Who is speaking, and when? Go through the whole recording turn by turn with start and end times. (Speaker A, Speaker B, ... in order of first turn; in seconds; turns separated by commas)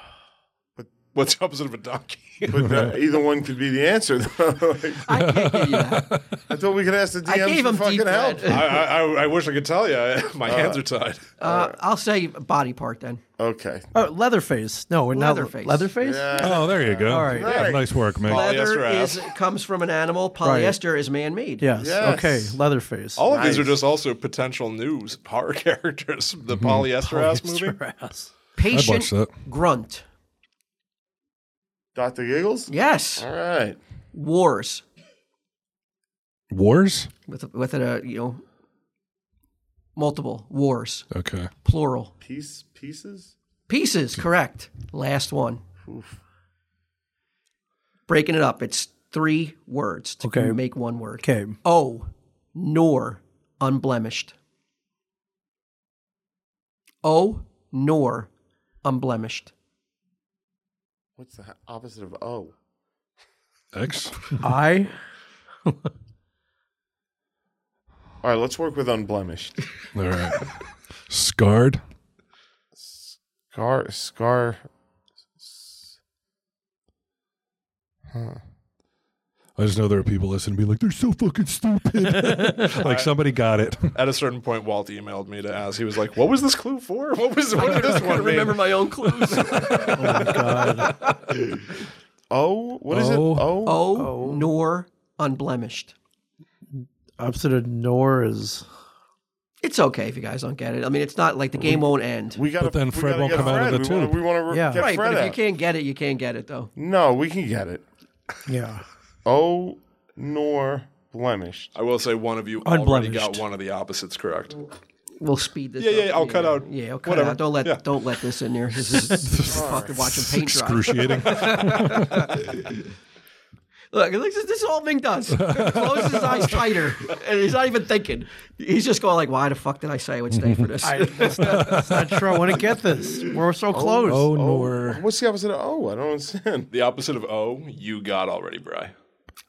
Speaker A: 1.1-2.7, Speaker B: 2.5-5.1, Speaker C: 2.7-2.9, Speaker D: 5.1-6.1, Speaker C: 5.3-6.2, Speaker B: 6.5-8.7, Speaker D: 7.3-8.8, Speaker A: 8.5-11.3, Speaker B: 10.4-10.8, Speaker D: 11.4-13.2, Speaker B: 11.4-11.8, Speaker B: 13.4-13.9, Speaker E: 13.9-17.5, Speaker D: 15.1-15.9, Speaker B: 16.0-17.9, Speaker C: 16.4-18.5, Speaker A: 18.2-19.3, Speaker D: 18.3-21.7, Speaker E: 20.4-20.8, Speaker E: 21.6-23.2, Speaker B: 21.8-22.6, Speaker A: 23.2-27.8, Speaker B: 23.2-23.9, Speaker C: 26.6-26.8, Speaker E: 27.0-28.3, Speaker D: 28.6-30.1, Speaker C: 28.7-29.3, Speaker B: 31.9-33.8, Speaker D: 32.7-33.3, Speaker D: 34.1-34.8, Speaker C: 36.5-37.1, Speaker D: 37.3-38.4, Speaker D: 40.0-41.1, Speaker C: 41.1-41.5, Speaker D: 41.6-42.1, Speaker B: 42.2-43.3, Speaker D: 43.7-45.6, Speaker B: 45.9-46.2, Speaker D: 48.1-54.3, Speaker E: 50.2-50.6, Speaker E: 51.2-51.6, Speaker D: 57.0-58.3, Speaker D: 58.8-59.5, Speaker B: 61.2-62.5, Speaker C: 63.7-64.4, Speaker E: 64.4-65.0, Speaker B: 68.2-69.6, Speaker C: 69.9-71.8, Speaker B: 72.8-74.6, Speaker B: 75.4-75.8, Speaker B: 78.1-78.4, Speaker C: 79.6-83.9, Speaker E: 82.2-82.7, Speaker A: 82.8-83.1, Speaker A: 83.9-89.7, Speaker D: 87.5-90.4, Speaker E: 89.9-91.0, Speaker B: 92.3-93.9, Speaker C: 92.9-93.5, Speaker D: 93.7-95.9, Speaker E: 94.0-94.5, Speaker E: 96.8-98.7, Speaker D: 99.6-102.4, Speaker B: 102.3-105.4, Speaker C: 102.6-104.2, Speaker E: 104.5-104.9, Speaker D: 104.8-106.7, Speaker B: 106.8-107.8, Speaker E: 108.5-108.8, Speaker B: 109.2-111.7, Speaker A: 111.8-114.6, Speaker E: 112.6-113.4, Speaker D: 115.2-122.7, Speaker A: 115.8-117.8, Speaker C: 119.2-122.2, Speaker B: 119.5-120.0, Speaker D: 123.9-131.7, Speaker C: 125.4-126.5, Speaker E: 130.8-134.3, Speaker C: 131.4-132.5, Speaker B: 133.7-136.7, Speaker C: 134.1-135.0, Speaker A: 136.7-138.9